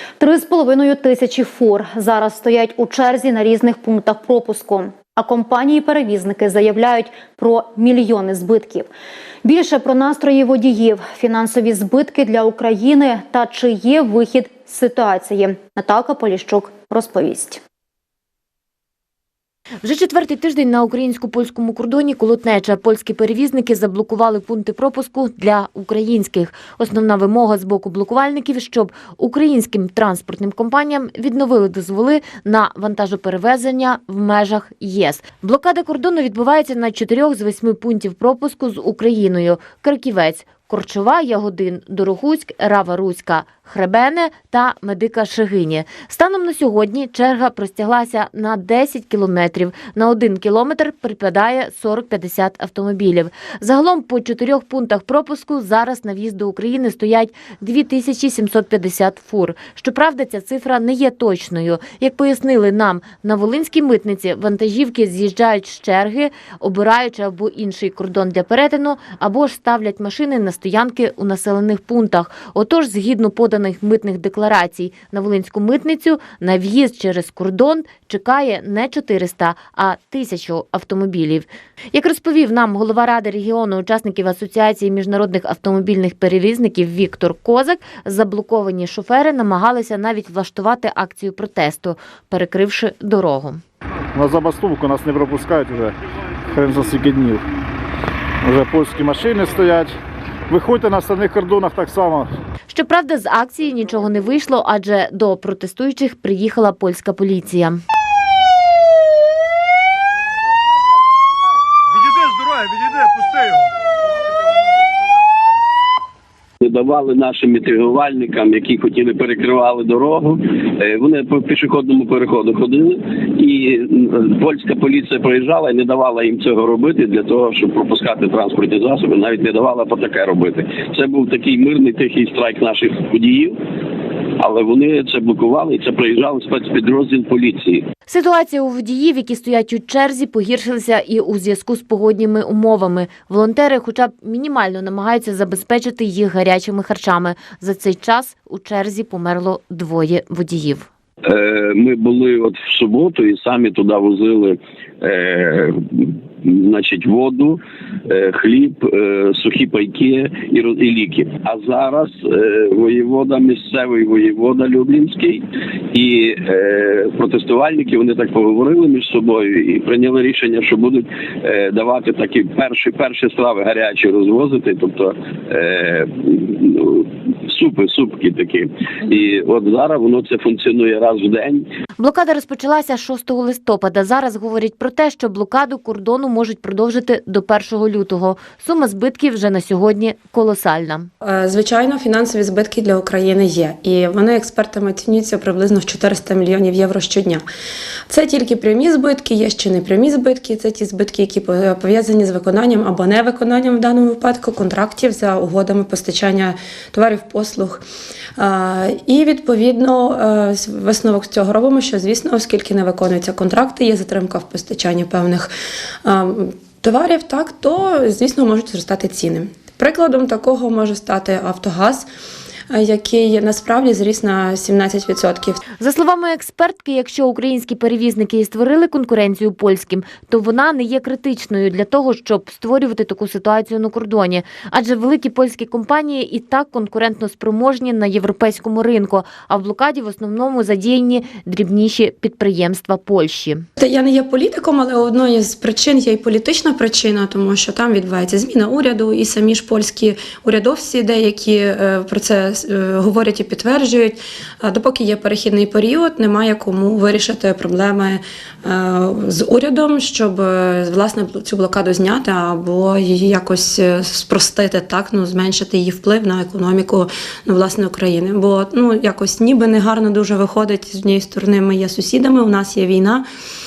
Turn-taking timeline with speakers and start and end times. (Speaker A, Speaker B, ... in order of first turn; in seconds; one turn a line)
Speaker A: 0.2-8.9
Speaker A: 9.4-17.6
Speaker B: 19.8-93.6
Speaker C: 94.2-96.0
Speaker C: 96.5-97.5
Speaker C: 98.4-100.0
Speaker C: 100.5-102.3
Speaker B: 102.7-107.8
Speaker D: 116.6-133.6
Speaker D: 134.4-137.9
Speaker B: 138.1-150.9
Speaker D: 151.2-181.7
Speaker B: 182.0-191.1
Speaker E: 191.2-197.4
Speaker E: 198.1-207.8
Speaker E: 208.4-215.5
Speaker E: 216.0-222.1
Speaker E: 222.7-225.6
Speaker B: 225.8-243.7
Speaker E: 243.8-273.2